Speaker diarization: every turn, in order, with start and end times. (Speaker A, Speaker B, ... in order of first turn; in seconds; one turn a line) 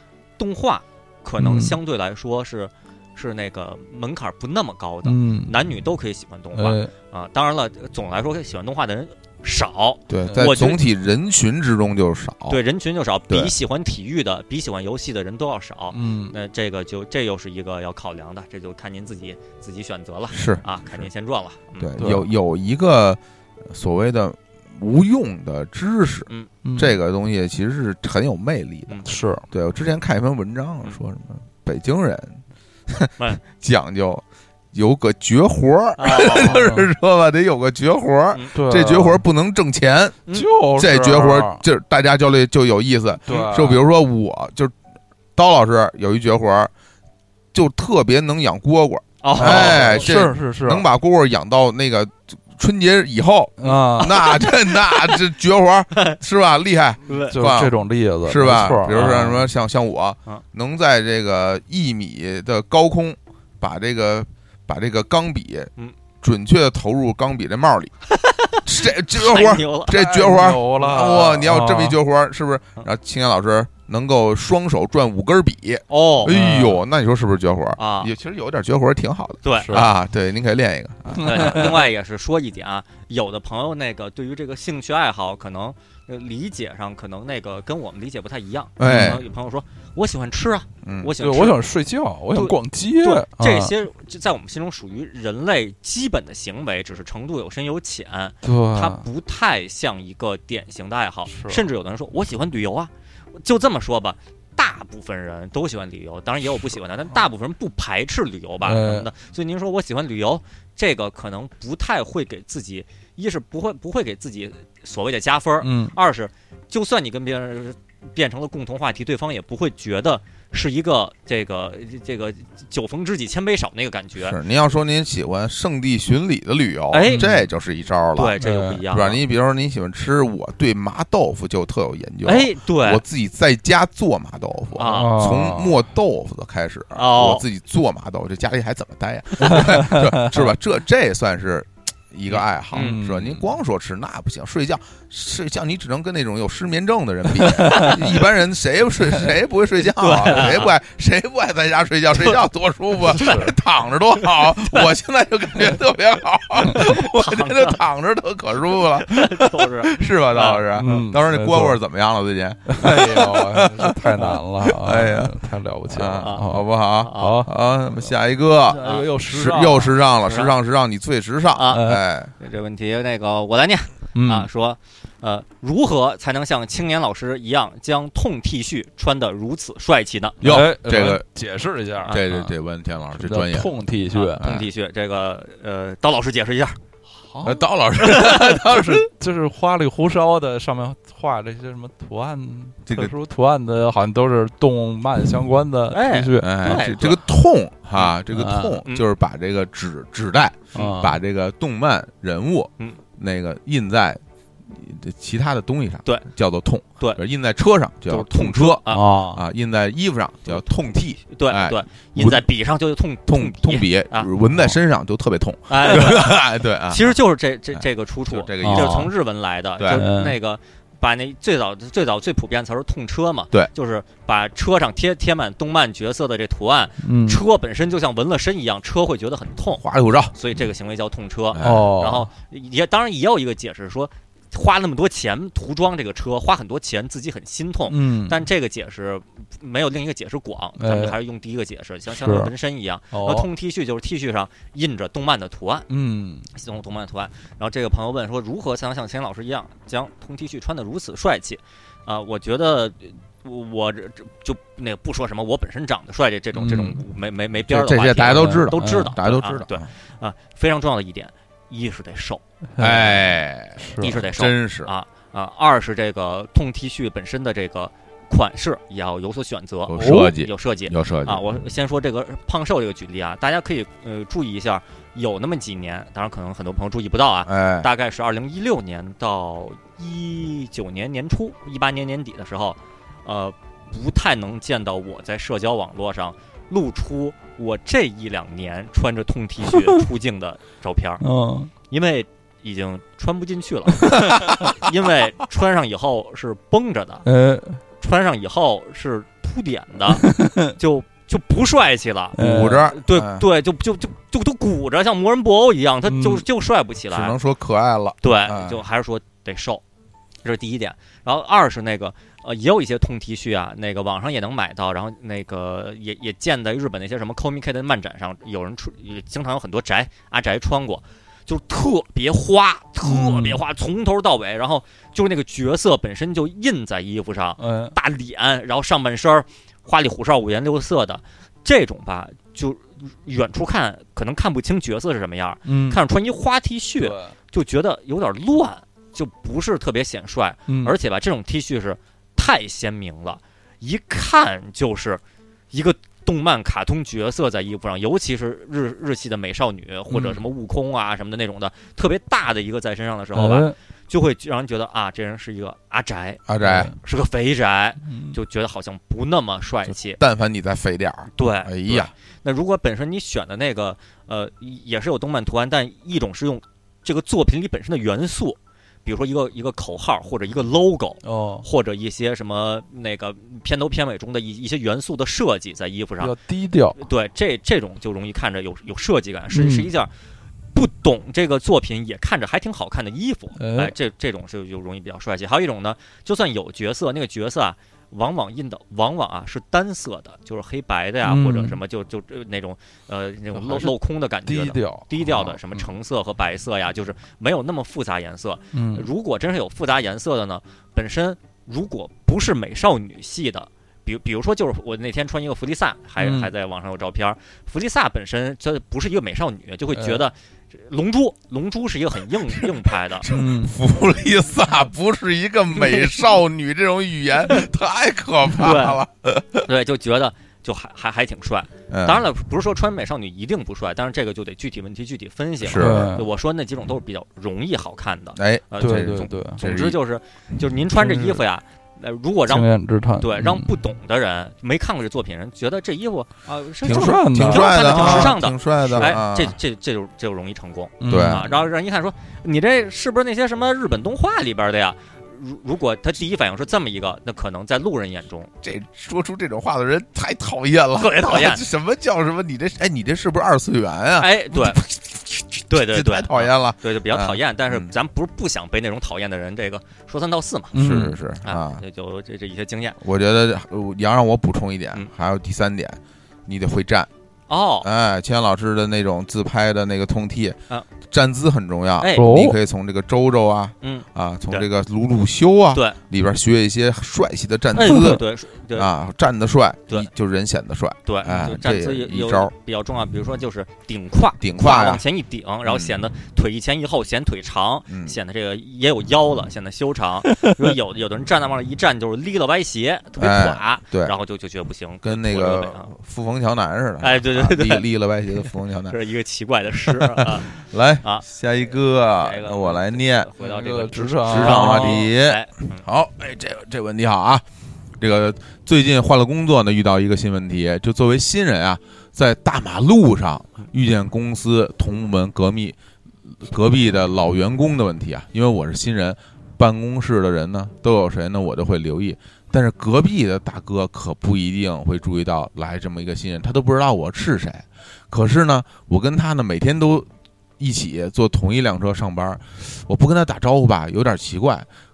Speaker A: 0.4-10.8
Speaker B: 1.4-1.8
Speaker B: 5.0-5.5
Speaker B: 6.5-6.9
Speaker C: 10.1-12.6
Speaker A: 12.5-21.9
Speaker B: 15.9-16.3
Speaker C: 20.3-21.1
Speaker C: 21.8-40.2
Speaker B: 22.0-22.3
Speaker B: 26.6-27.0
Speaker B: 29.1-29.4
Speaker A: 36.0-36.6
Speaker B: 36.4-36.9
Speaker B: 38.5-39.2
Speaker B: 40.3-41.6
Speaker C: 40.8-44.7
Speaker B: 43.3-43.8
Speaker C: 45.4-46.7
Speaker C: 47.5-67.9
Speaker A: 49.2-50.1
Speaker B: 49.4-50.9
Speaker B: 53.6-54.3
Speaker A: 57.1-57.4
Speaker B: 57.3-59.5
Speaker A: 68.1-70.0
Speaker C: 68.6-81.8
Speaker B: 69.9-72.0
Speaker A: 75.9-76.3
Speaker B: 76.2-76.8
Speaker A: 77.8-78.1
Speaker A: 79.4-79.8
Speaker B: 79.6-79.9
Speaker B: 81.2-81.8
Speaker A: 81.2-91.6
Speaker C: 88.8-89.2
Speaker B: 88.8-89.2
Speaker C: 90.8-91.1
Speaker B: 91.2-93.7
Speaker A: 92.3-124.4
Speaker B: 98.4-99.0
Speaker B: 101.3-101.6
Speaker B: 108.6-109.1
Speaker B: 115.6-115.9
Speaker C: 124.2-128.4
Speaker A: 126.9-127.3
Speaker B: 127.1-127.3
Speaker A: 128.2-129.2
Speaker B: 128.4-128.8
Speaker C: 128.9-165.3
Speaker A: 132.2-133.0
Speaker A: 134.8-135.1
Speaker B: 134.8-135.8
Speaker A: 136.9-137.4
Speaker B: 139.4-140.5
Speaker A: 142.3-143.0
Speaker B: 142.7-143.5
Speaker B: 147.7-147.9
Speaker A: 147.7-147.9
Speaker A: 150.0-150.7
Speaker A: 153.1-153.5
Speaker B: 153.1-153.5
Speaker A: 156.7-157.8
Speaker A: 158.9-160.7
Speaker B: 160.7-161.8
Speaker B: 162.7-167.5
Speaker C: 165.9-172.3
Speaker A: 167.0-167.4
Speaker B: 168.7-169.9
Speaker A: 168.8-169.1
Speaker A: 170.2-170.5
Speaker A: 171.5-171.8
Speaker B: 171.7-172.0
Speaker A: 172.4-180.4
Speaker B: 174.1-174.5
Speaker C: 180.4-181.2
Speaker B: 180.4-182.5
Speaker C: 182.1-183.7
Speaker B: 183.1-184.4
Speaker A: 184.1-186.8
Speaker C: 184.4-184.7
Speaker B: 187.2-196.8
Speaker C: 187.4-189.1
Speaker C: 192.9-193.1
Speaker A: 195.9-197.2
Speaker C: 196.4-212.4
Speaker B: 198.3-198.8
Speaker B: 200.7-201.2
Speaker A: 208.1-209.0
Speaker B: 208.9-209.4
Speaker A: 210.5-210.7
Speaker A: 211.3-214.3
Speaker C: 213.3-217.2
Speaker A: 215.7-245.9
Speaker C: 217.7-219.1
Speaker B: 218.6-219.1
Speaker C: 219.8-220.0
Speaker B: 219.9-220.4
Speaker B: 227.0-227.4
Speaker C: 229.8-230.3
Speaker C: 231.5-231.9
Speaker B: 231.6-232.3
Speaker B: 237.9-238.4
Speaker B: 240.8-241.1
Speaker B: 242.1-242.5
Speaker B: 243.1-243.5
Speaker B: 245.9-246.5
Speaker A: 246.5-262.4
Speaker B: 256.6-257.0
Speaker C: 257.6-259.9
Speaker B: 258.3-259.1
Speaker B: 262.8-263.2
Speaker C: 262.8-264.9
Speaker B: 263.8-264.1
Speaker A: 264.0-291.2
Speaker C: 269.9-271.4
Speaker B: 270.0-270.3
Speaker C: 277.4-277.9
Speaker B: 291.2-291.7
Speaker A: 291.9-297.2
Speaker B: 297.2-297.8
Speaker A: 298.0-307.4
Speaker B: 300.1-300.7
Speaker B: 302.4-302.9
Speaker C: 302.4-303.4
Speaker B: 306.0-306.4
Speaker C: 307.1-308.8
Speaker A: 308.2-309.8
Speaker A: 310.4-360.2
Speaker B: 323.0-323.6
Speaker B: 327.6-327.9
Speaker B: 335.6-336.0
Speaker B: 337.0-337.3
Speaker B: 340.7-340.9
Speaker B: 350.1-350.4
Speaker B: 353.3-353.7
Speaker C: 356.5-356.9
Speaker B: 356.6-356.9
Speaker B: 358.1-358.4
Speaker C: 359.9-362.1
Speaker A: 361.3-376.3
Speaker B: 371.2-371.6
Speaker B: 376.2-377.0
Speaker A: 376.9-380.1
Speaker B: 379.5-379.9
Speaker A: 380.7-413.3
Speaker B: 383.6-383.9
Speaker B: 391.2-391.8
Speaker B: 393.5-393.9
Speaker B: 394.4-395.9
Speaker B: 398.7-399.1
Speaker B: 406.2-406.5
Speaker B: 409.9-410.2
Speaker C: 413.2-419.7
Speaker B: 413.3-413.7
Speaker A: 418.6-419.0
Speaker A: 419.6-432.7
Speaker C: 421.9-422.2
Speaker C: 425.6-426.1
Speaker B: 425.7-426.2
Speaker C: 428.4-430.0
Speaker B: 428.8-429.6
Speaker B: 431.0-431.4
Speaker B: 432.5-433.7
Speaker A: 433.2-448.5
Speaker C: 436.8-439.6
Speaker B: 436.8-438.4
Speaker B: 441.0-441.6
Speaker C: 441.1-441.4
Speaker C: 448.6-457.9
Speaker A: 451.0-451.6
Speaker A: 454.1-454.8
Speaker A: 455.7-460.8
Speaker B: 460.7-461.2
Speaker C: 460.7-461.8
Speaker A: 461.4-463.0
Speaker C: 463.0-467.1
Speaker A: 467.5-467.9
Speaker C: 467.8-478.2
Speaker A: 472.0-472.3
Speaker B: 472.1-472.6
Speaker A: 473.8-474.7
Speaker A: 477.7-478.9
Speaker B: 477.8-478.2
Speaker C: 478.7-482.5
Speaker A: 481.1-495.9
Speaker C: 484.4-485.0
Speaker C: 485.6-485.9
Speaker C: 487.9-488.2
Speaker C: 493.2-494.1
Speaker C: 495.0-498.9
Speaker A: 497.0-497.9
Speaker A: 498.4-501.2
Speaker C: 499.9-503.3
Speaker A: 502.2-505.8
Speaker B: 503.4-505.0
Speaker C: 504.2-507.4
Speaker C: 508.0-515.8
Speaker C: 516.3-534.7